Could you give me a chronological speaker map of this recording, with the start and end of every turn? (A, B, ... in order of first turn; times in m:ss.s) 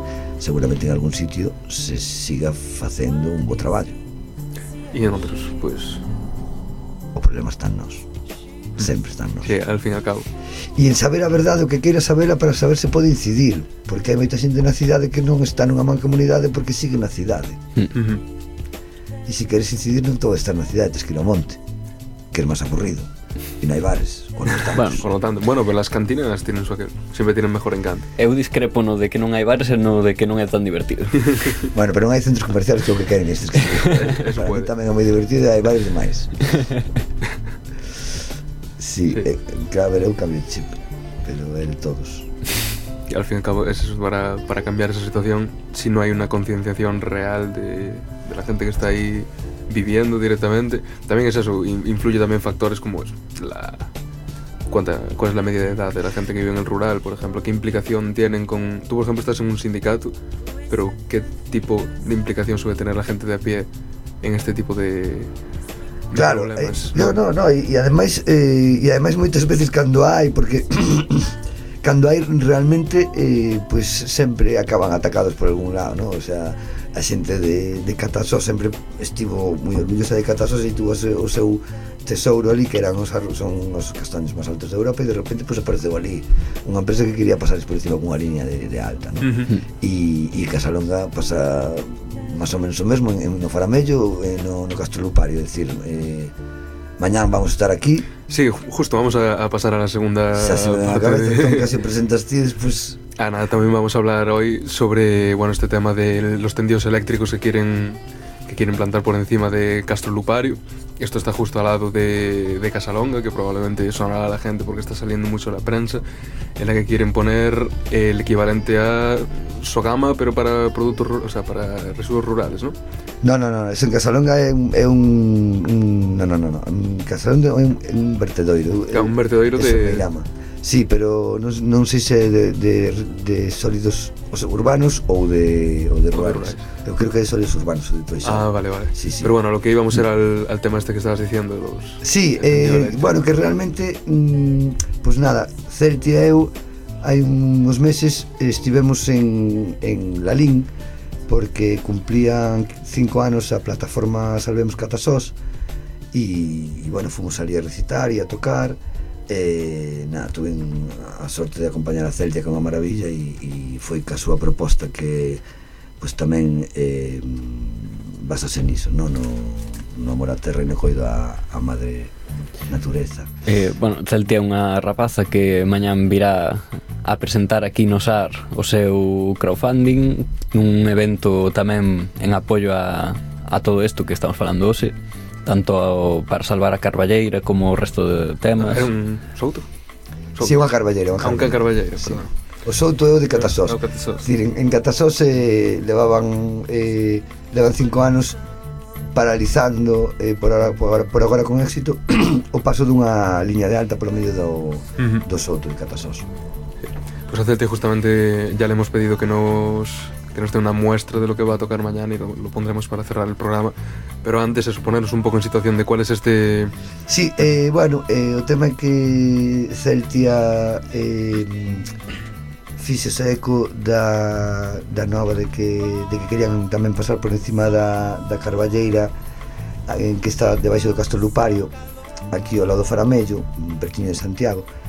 0:00.4-0:04.0 A
0:04.9-0:06.0 B
0:07.1-0:08.1 A
0:08.8-0:09.6 A
0:09.4-0:10.3 B
0:10.8-0:17.6 A
0:17.9-0:18.2 B
0:19.2-0:21.6 A
0:22.3-0:25.1 A
0:24.7-0:25.0 C
0:24.9-0:28.1 B
0:28.2-0:31.5 C
0:31.7-0:36.4 A
0:34.0-0:34.7 B
0:38.8-0:42.3 A
0:43.1-0:53.9 B
0:54.7-1:00.1 B
1:00.7-1:03.7 B
1:04.2-1:05.3 B
1:06.1-1:07.2 B
1:06.1-1:36.3 A
1:29.2-1:29.5 B
1:37.0-1:38.1 A
1:38.3-1:41.8 B
1:40.3-1:43.0 A
1:43.2-1:56.0 B
1:56.6-2:02.8 B
2:03.2-2:19.3 A
2:08.9-2:10.1 B
2:16.1-2:16.6 B
2:18.2-2:23.2 B
2:22.0-2:30.7 A
2:31.3-2:35.4 A
2:36.1-2:45.4 A
2:46.0-2:52.1 A
2:52.7-2:53.3 A
2:53.4-3:04.9 C
3:05.4-3:08.9 C
3:08.6-3:09.6 B
3:10.4-3:10.6 B
3:10.4-3:18.4 A
3:11.2-3:12.3 B
3:13.4-3:14.2 B
3:19.1-3:26.3 A
3:25.0-3:25.2 B
3:26.9-3:36.7 B
3:37.1-3:41.9 A
3:42.8-3:49.1 A
3:49.9-3:51.7 A
3:52.3-3:54.7 A